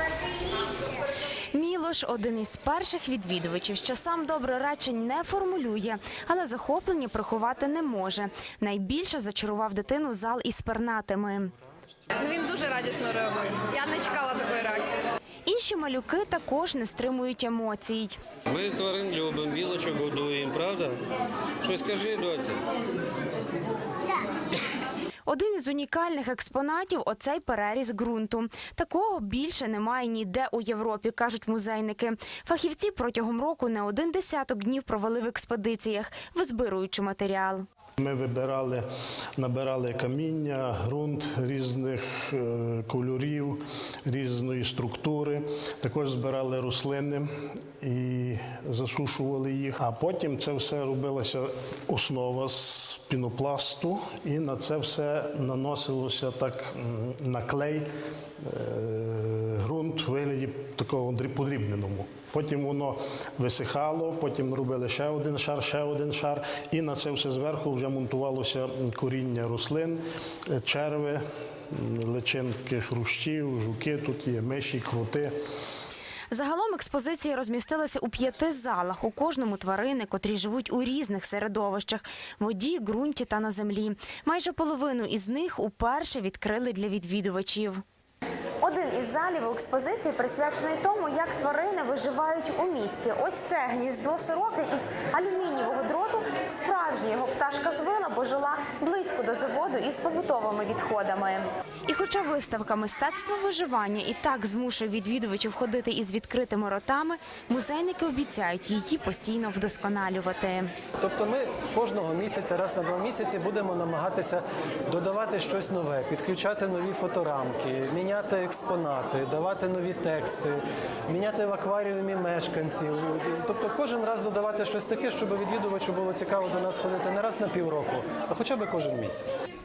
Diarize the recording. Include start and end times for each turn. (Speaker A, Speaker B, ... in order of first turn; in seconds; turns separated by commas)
Speaker A: 1.5-11.5, Speaker B: 12.2-14.9, Speaker A: 15.4-18.2, Speaker C: 18.5-21.0, Speaker C: 21.6-22.6, Speaker A: 25.2-37.6, Speaker D: 38.0-38.8, Speaker D: 39.4-47.3, Speaker D: 47.8-57.9, Speaker D: 58.4-75.3, Speaker A: 76.3-87.8, Speaker A: 88.6-110.7, Speaker E: 111.0-129.3